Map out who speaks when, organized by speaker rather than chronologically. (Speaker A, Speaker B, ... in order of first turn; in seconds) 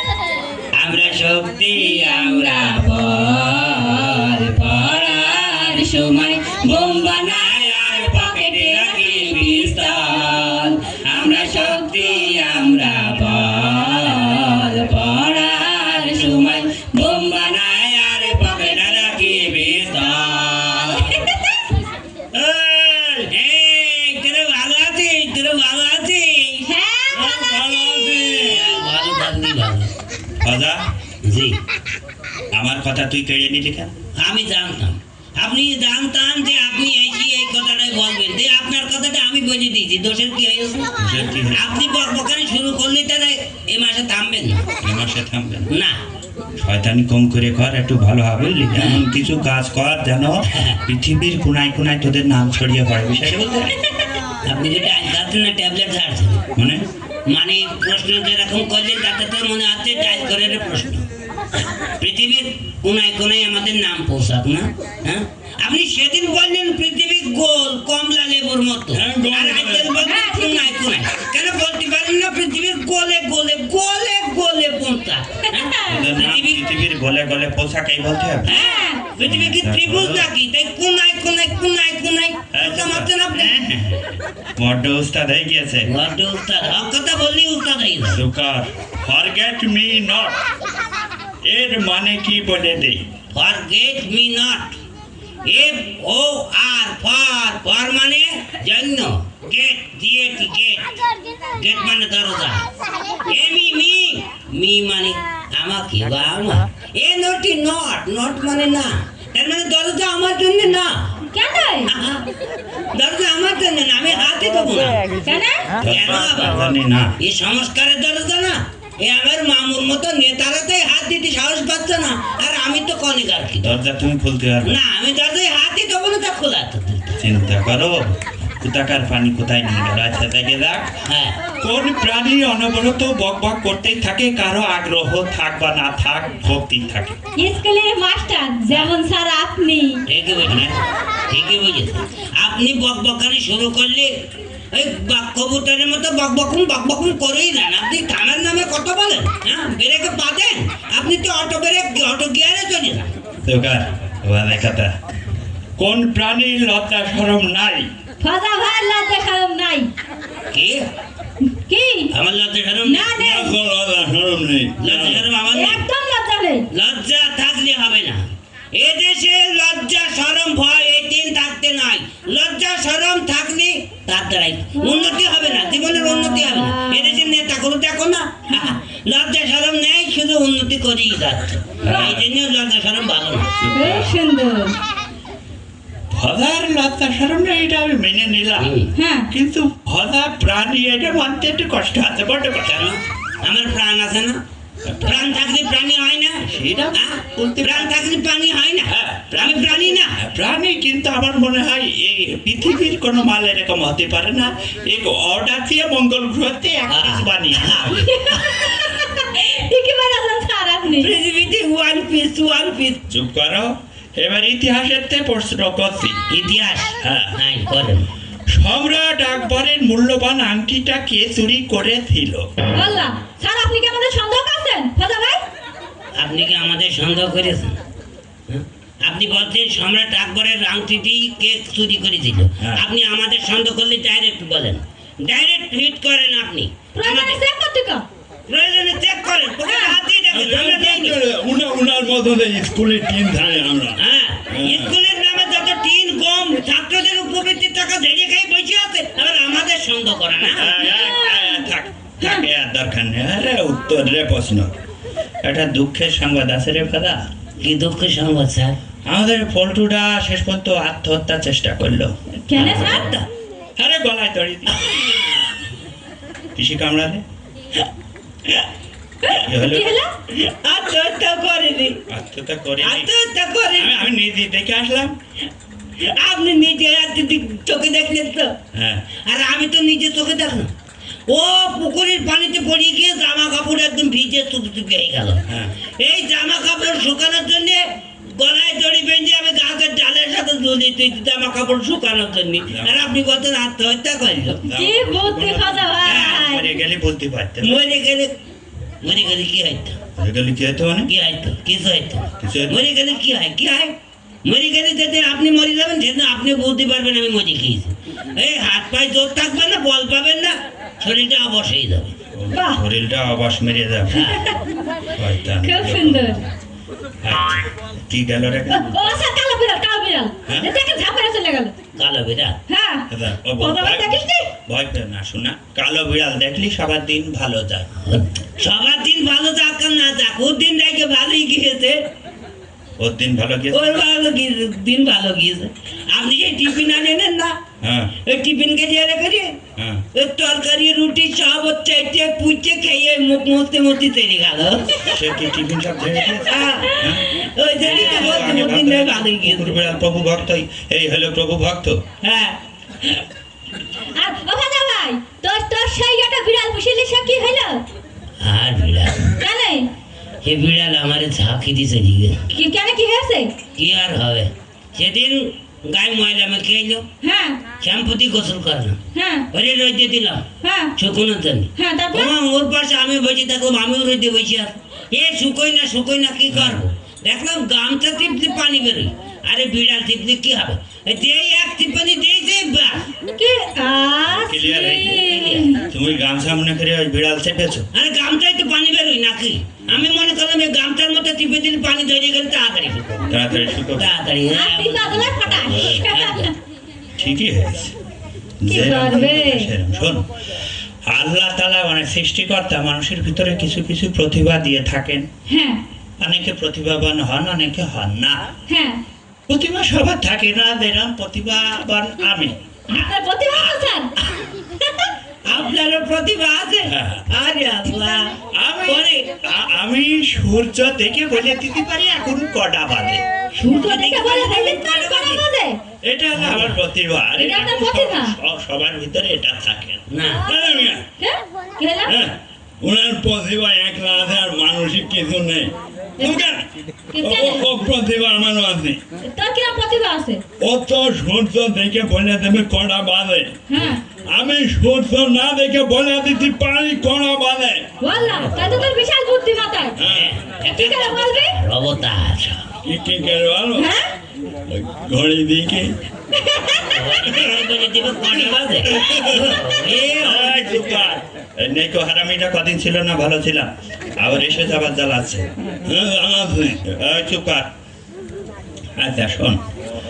Speaker A: 0.8-21.2, 23.3-26.7, 28.3-29.9, 31.2-31.6, 34.2-44.6, 45.7-46.0, 48.8-49.0, 50.5-50.8, 54.4-56.4, 57.3-61.0, 61.8-76.7, 78.5-83.5, 85.9-88.2, 93.3-94.8, 95.5-101.0, 101.5-102.7, 103.2-111.1, 111.9-112.2, 112.9-115.1, 115.8-116.6, 117.2-123.8, 124.6-127.2, 131.1-131.4, 140.1-140.8, 141.3-144.1, 144.7-153.1, 160.5-160.8, 162.1-163.1, 164.8-165.8, 166.7-183.6, 188.6-188.9, 192.7-194.4, 195.0-196.4, 196.9-200.2, 206.9-208.7, 211.0-213.0, 216.3-218.1, 226.2-227.8, 228.5-237.4, 238.5-241.2, 244.0-250.7, 257.6-258.8, 262.5-263.2, 264.8-265.5, 270.3-272.0, 272.8-274.1, 276.0-278.6, 279.1-280.7, 281.3-294.6, 296.0-296.4, 297.6-298.4, 299.0-300.0, 301.1-303.9, 304.4-312.1, 314.1-314.5, 322.0-322.6, 328.0-332.0, 333.7-337.6, 338.2-339.6, 340.1-345.2, 346.4-349.8, 352.2-353.2, 358.4-359.4, 360.4-362.5, 363.8-367.1, 367.8-369.0, 369.5-383.1, 385.2-385.8, 387.9-393.4, 393.9-396.5, 414.9-419.3, 423.5-425.4, 426.3-426.8, 430.1-430.5, 448.2-448.8, 450.0-452.6, 456.8-460.8
Speaker B: 5.6-6.3, 6.9-10.4, 11.1-12.8, 14.4-19.3, 20.9-21.4, 26.7-28.3, 70.0-70.7, 75.5-76.1, 78.5-79.0, 111.3-111.9, 115.2-115.7, 137.4-140.0, 158.2-159.9, 161.6-162.1, 162.8-163.6, 165.5-166.7, 183.7-184.8, 188.9-189.3, 207.9-211.2, 222.8-225.4, 236.9-238.1, 239.7-240.0, 250.6-251.7, 252.2-252.5, 262.4-263.1, 269.2-270.1, 294.6-296.8, 312.5-312.8, 315.6-316.5, 318.7-321.7, 322.7-324.5, 346.7-347.1, 347.8-348.7, 354.1-357.8, 359.4-359.9, 362.5-363.5, 367.2-367.6, 369.1-369.5, 370.6-370.9, 371.8-372.3, 383.4-385.9, 394.5-396.5, 398.7-399.7, 405.5-405.8, 408.7-409.0, 412.9-414.1, 423.6-425.8, 427.4-428.4, 430.5-432.2, 436.2-436.5, 437.1-437.7, 439.2-440.4, 443.7-444.0, 448.0-450.0, 450.6-451.6, 453.8-454.1, 456.5-456.8
Speaker C: 22.3-23.3, 27.1-28.7, 30.4-30.8, 32.5-33.9, 41.0-41.7, 44.8-45.7, 46.6-53.8, 56.5-56.8, 68.9-69.9, 75.9-78.5, 79.2-80.3, 82.5-85.9, 88.1-90.4, 91.4-93.0, 115.8-117.1, 123.6-124.8, 127.2-128.0, 128.6-130.9, 131.6-137.2, 153.4-154.9, 155.8-157.9, 163.2-165.3, 181.8-182.3, 183.6-184.2, 186.1-188.7, 189.3-192.9, 194.8-195.4, 196.5-198.1, 198.9-208.1, 213.1-216.2, 217.0-217.3, 218.5-222.5, 240.3-243.9, 244.6-244.9, 250.4-254.7, 255.4-257.2, 259.1-262.4, 263.8-264.9, 266.6-267.2, 269.5-269.9, 272.1-273.1, 273.8-275.1, 278.7-279.1, 285.5-285.8, 292.7-293.2, 294.6-297.9, 300.2-301.1, 302.4-302.9, 312.3-314.3, 315.1-316.4, 317.2-319.0, 323.1-327.9, 333.0-334.0, 337.8-338.1, 339.8-340.1, 345.1-352.0, 376.5-376.8, 384.3-385.2, 385.9-387.9, 393.3-394.1, 397.2-397.9, 398.6-400.2, 401.1-405.3, 406.2-408.4, 409.5-412.6, 416.8-417.2, 418.4-423.2, 426.0-431.0, 432.1-436.6, 437.2-439.0, 440.6-443.6, 444.3-447.8, 450.0-450.3, 452.9-453.9, 454.7-456.0, 458.9-467.7, 469.0-469.6